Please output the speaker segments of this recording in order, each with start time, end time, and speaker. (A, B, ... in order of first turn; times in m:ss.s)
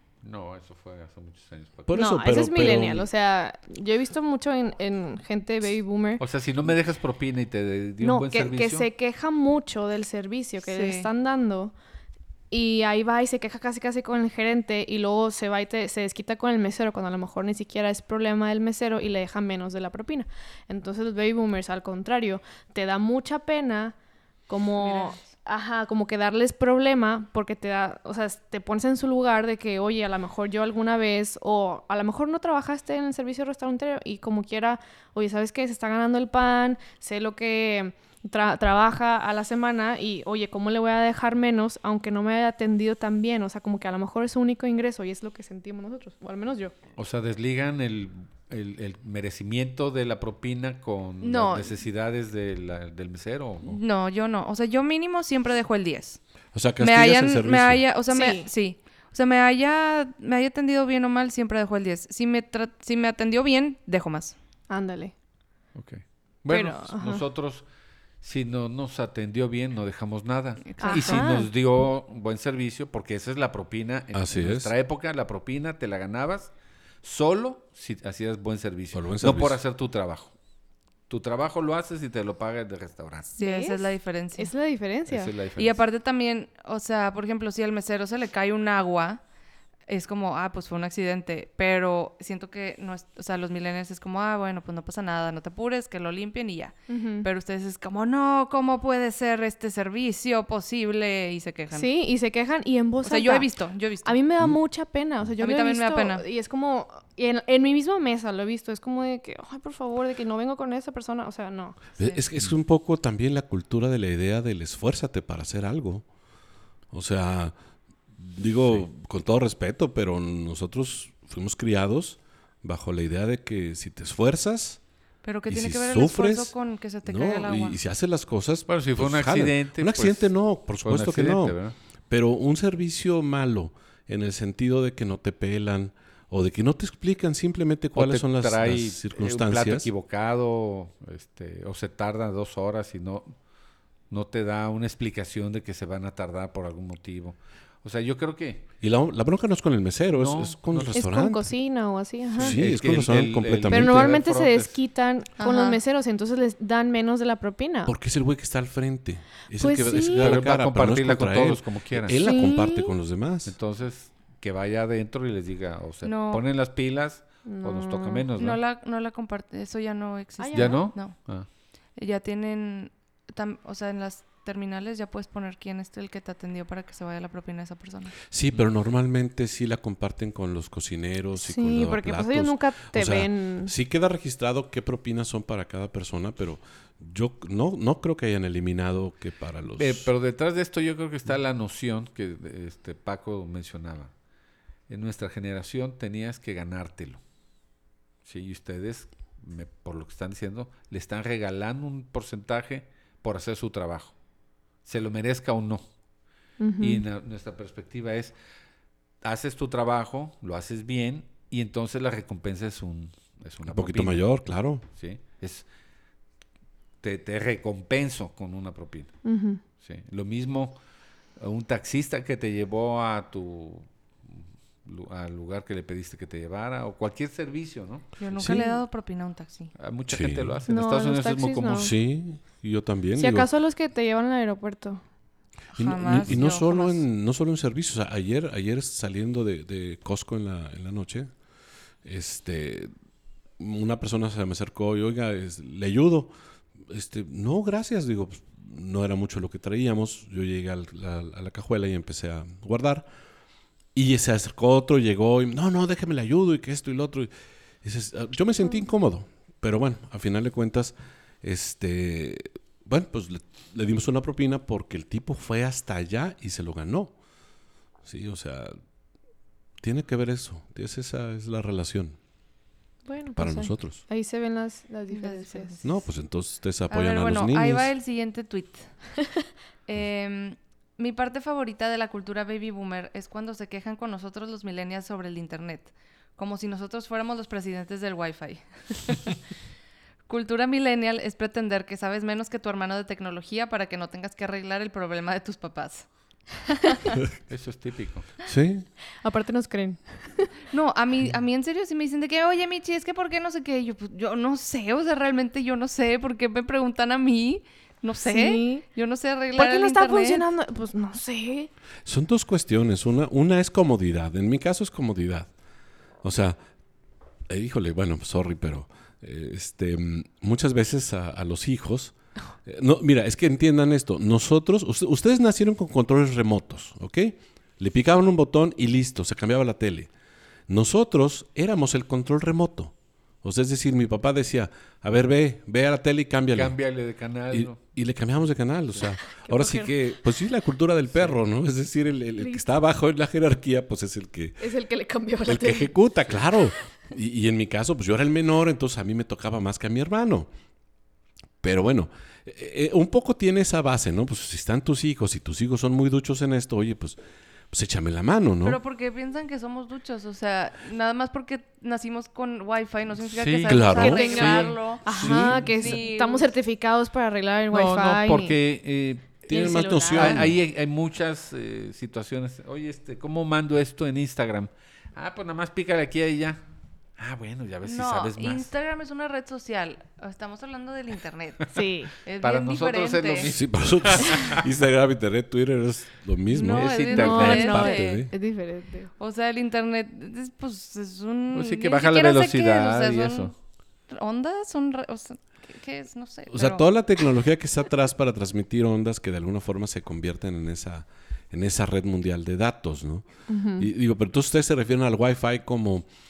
0:00.2-0:02.0 A
0:01.9-0:03.1 B
0:01.9-0:06.2 C
0:06.2-0:08.9 A
0:08.0-0:11.7 C
0:10.6-0:11.1 D
0:12.5-0:23.9 C
0:24.5-0:46.7 C
0:24.8-0:25.3 D
0:47.0-0:53.8 A
0:51.2-0:51.7 D
0:53.6-0:56.2 D
0:56.5-0:57.8 B
0:56.8-1:04.3 D
0:58.1-0:58.5 C
1:04.7-1:05.1 C
1:05.7-1:07.6 A
1:06.5-1:07.2 C
1:08.2-1:16.5 A
1:10.7-1:11.3 D
1:10.8-1:11.5 C
1:14.1-1:14.7 B
1:17.0-1:20.3 A
1:18.9-1:19.6 B
1:21.1-1:23.3 A
1:23.4-1:24.5 D
1:23.4-1:25.3 C
1:25.1-1:25.8 A
1:25.6-1:29.2 D
1:29.9-1:41.9 D
1:36.9-1:37.3 C
1:41.7-1:43.5 C
1:43.0-1:44.1 D
1:44.0-1:51.8 C
1:45.4-1:46.2 D
1:52.0-1:56.0 B
1:56.9-1:57.5 B
1:58.2-2:04.8 B
2:05.2-2:07.8 D
2:05.5-2:06.5 B
2:07.0-2:11.6 B
2:08.7-2:11.7 A
2:12.1-2:19.9 B
2:17.9-2:23.4 A
2:24.1-2:28.7 A
2:28.8-2:31.5 B
2:30.1-2:31.0 A
2:30.9-2:32.6 C
2:32.4-2:34.2 B
2:32.4-2:34.8 A
2:33.7-2:37.9 C
2:35.4-2:35.8 D
2:37.8-2:43.5 B
2:39.6-2:40.4 C
2:40.0-2:42.2 A
2:42.1-2:42.9 C
2:43.4-2:48.6 A
2:46.0-2:46.4 D
2:47.4-2:48.3 C
2:48.4-2:51.2 D
2:50.4-2:50.9 C
2:50.5-2:51.5 A
2:51.9-2:58.1 D
2:58.3-3:10.1 B
3:01.4-3:03.7 C
3:09.8-3:14.1 A
3:14.9-3:17.2 A
3:18.2-3:24.2 A
3:24.8-3:25.8 A
3:26.6-3:27.0 C
3:26.8-3:28.3 A
3:29.2-3:34.3 A
3:33.7-3:34.8 B
3:34.9-3:35.7 A
3:37.0-3:39.2 A
3:39.2-3:39.6 C
3:39.8-3:40.8 A
3:41.4-3:48.1 A
3:48.2-3:49.7 D
3:48.4-3:48.6 B
3:49.7-3:51.9 A
3:50.1-3:50.6 B
3:50.7-3:51.9 C
3:51.8-3:53.5 B
3:53.2-3:55.0 C
3:55.7-3:57.0 D
3:55.8-4:01.3 B
4:02.0-4:02.9 B
4:03.6-4:06.3 B
4:06.8-4:13.1 B
4:13.9-4:17.3 B
4:17.8-4:27.1 B
4:28.0-4:28.8 B
4:29.8-4:32.2 B
4:33.0-4:35.8 C
4:33.4-4:34.0 B
4:35.1-4:35.8 D
4:35.8-4:37.9 B
4:36.9-4:39.0 D
4:39.8-4:49.3 D
4:50.3-4:56.1 D
4:57.5-4:58.3 A
4:58.4-4:58.9 B
4:59.2-5:00.5 C
5:00.7-5:10.4 D
5:08.2-5:08.8 C
5:09.6-5:11.7 C
5:12.0-5:15.5 B
5:16.2-5:16.6 B
5:17.5-5:30.1 B
5:30.7-5:36.8 B
5:36.5-5:37.8 A
5:37.5-5:44.6 B
5:39.4-5:39.9 C
5:42.4-5:42.6 C
5:44.6-5:45.9 C
5:45.4-5:50.5 B
5:51.6-5:57.2 B
5:57.7-5:58.8 B
5:58.6-6:06.5 D
6:03.3-6:06.0 A
6:03.6-6:04.5 B
6:04.0-6:08.6 C
6:05.2-6:05.6 B
6:07.7-6:16.6 A
6:09.5-6:10.6 B
6:09.5-6:10.2 C
6:09.5-6:10.4 D
6:17.2-6:18.7 A
6:17.8-6:23.5 D
6:21.7-6:22.1 C
6:22.4-6:24.6 A
6:23.4-6:28.3 B
6:26.5-6:28.2 D
6:26.7-6:27.8 A
6:27.1-6:29.1 C
6:29.2-6:33.5 D
6:31.5-6:33.5 A
6:34.1-6:36.8 D
6:36.5-6:43.2 B
6:43.5-6:43.9 C
6:43.8-6:46.0 B